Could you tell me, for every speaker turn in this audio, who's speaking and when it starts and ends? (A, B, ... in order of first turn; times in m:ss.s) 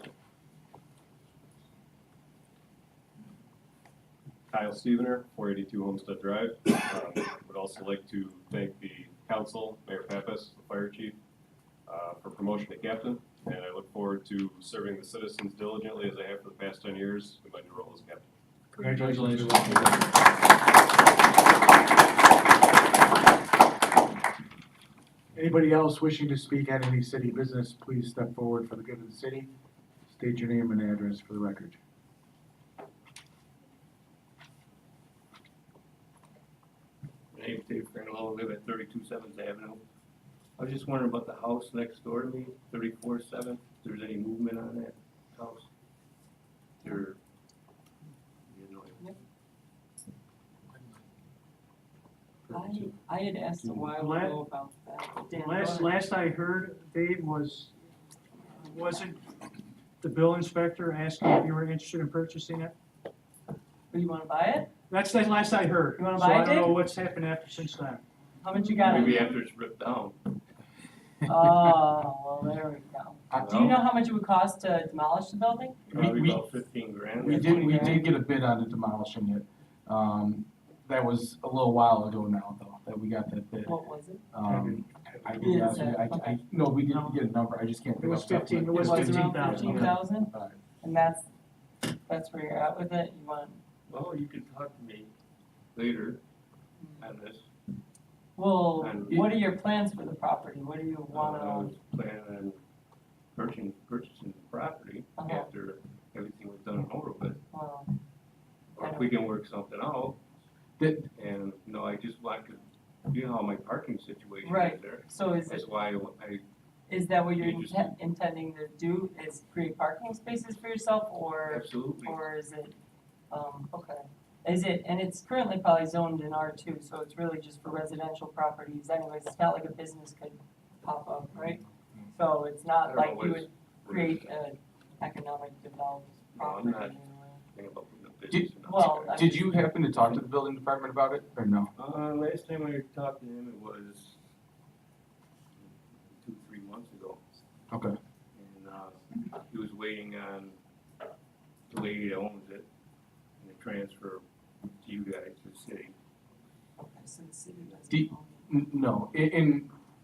0:04.5-0:11.2 A
0:11.9-0:18.3 A
0:18.8-0:20.0 B
0:18.9-0:19.6 C
0:25.4-0:29.5 B
0:30.1-0:31.8 B
0:37.3-0:39.8 D
0:40.6-0:45.7 D
0:46.8-0:47.2 D
0:48.5-0:49.2 D
0:52.5-0:56.0 E
0:54.0-0:54.4 C
0:55.3-0:57.7 C
0:58.5-0:59.2 C
1:00.0-1:02.7 C
1:03.9-1:04.7 E
1:04.9-1:08.0 C
1:06.0-1:06.8 E
1:08.4-1:09.4 E
1:08.8-1:10.2 D
1:11.2-1:15.8 E
1:13.3-1:13.7 F
1:13.4-1:13.9 D
1:15.9-1:18.0 D
1:15.9-1:16.4 F
1:17.2-1:23.8 F
1:17.2-1:18.1 E
1:23.7-1:24.2 E
1:24.3-1:30.6 F
1:24.4-1:25.7 B
1:25.4-1:26.4 E
1:28.0-1:30.0 C
1:28.7-1:31.3 E
1:32.1-1:33.6 E
1:33.9-1:35.1 D
1:35.8-1:36.2 D
1:36.8-1:37.1 E
1:37.0-1:37.4 D
1:38.4-1:41.7 E
1:38.8-1:39.2 D
1:41.1-1:42.6 D
1:43.4-1:47.4 D
1:45.2-1:45.5 E
1:47.5-1:47.9 E
1:48.8-1:50.2 D
1:48.8-1:49.2 E
1:50.8-1:51.1 F
1:51.2-1:56.4 D
1:54.4-1:55.7 E
1:56.9-2:02.7 E
1:57.4-1:58.0 D
2:01.5-2:02.2 D
2:03.3-2:17.4 E
2:12.8-2:14.3 D
2:16.3-2:17.0 D
2:17.5-2:19.3 D
2:18.3-2:21.7 F
2:18.6-2:19.7 E
2:21.8-2:24.2 D
2:25.6-2:27.2 D
2:27.7-2:28.0 F
2:28.3-2:30.6 D
2:31.7-2:32.7 D
2:33.4-2:36.0 D
2:36.8-2:38.5 E
2:37.9-2:39.7 F